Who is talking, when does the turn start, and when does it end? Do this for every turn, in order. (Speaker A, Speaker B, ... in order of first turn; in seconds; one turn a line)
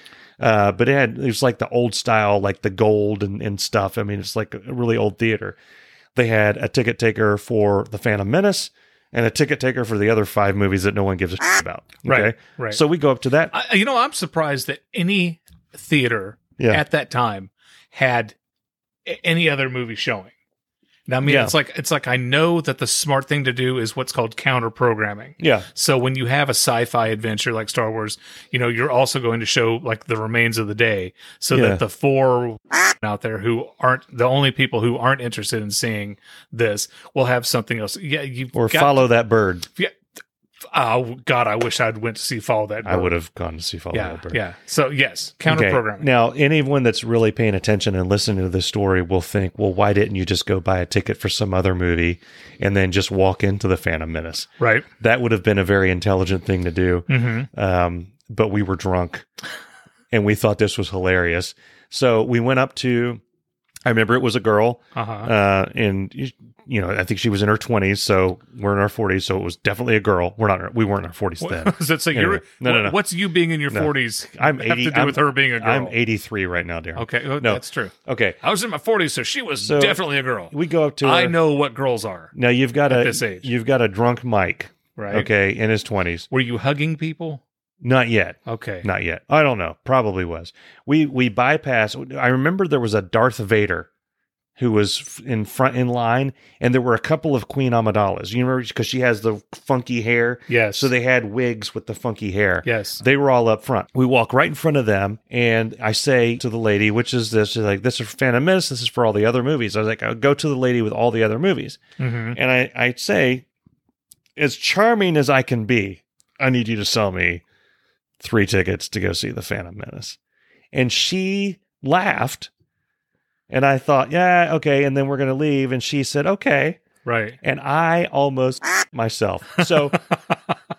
Speaker A: 0.4-5.6
Speaker A: 6.2-13.5
Speaker B: 12.1-12.8
Speaker B: 13.5-18.4
Speaker B: 19.1-20.3
Speaker B: 21.1-39.1
Speaker A: 21.2-21.5
Speaker A: 25.4-25.7
Speaker A: 31.5-31.8
Speaker A: 38.5-39.7
Speaker B: 40.7-43.1
Speaker A: 42.9-44.4
Speaker B: 43.9-46.1
Speaker A: 45.5-54.5
Speaker B: 54.6-54.9
Speaker A: 55.0-59.3
Speaker B: 57.1-57.5
Speaker A: 60.1-63.2
Speaker A: 63.9-73.0
Speaker B: 65.0-65.3
Speaker B: 71.4-76.0
Speaker A: 73.7-78.4
Speaker B: 77.0-82.3
Speaker A: 79.6-81.4
Speaker A: 82.3-86.3
Speaker B: 82.9-83.5
Speaker B: 85.0-85.3
Speaker B: 86.3-87.4
Speaker A: 87.8-93.9
Speaker B: 88.5-88.9
Speaker A: 94.6-111.8
Speaker B: 100.5-100.9
Speaker B: 102.7-103.0
Speaker B: 112.0-112.4
Speaker A: 112.3-113.5
Speaker A: 114.4-117.4
Speaker A: 118.2-120.2
Speaker A: 120.7-122.5
Speaker A: 123.5-126.8
Speaker B: 127.0-127.4
Speaker A: 127.4-130.0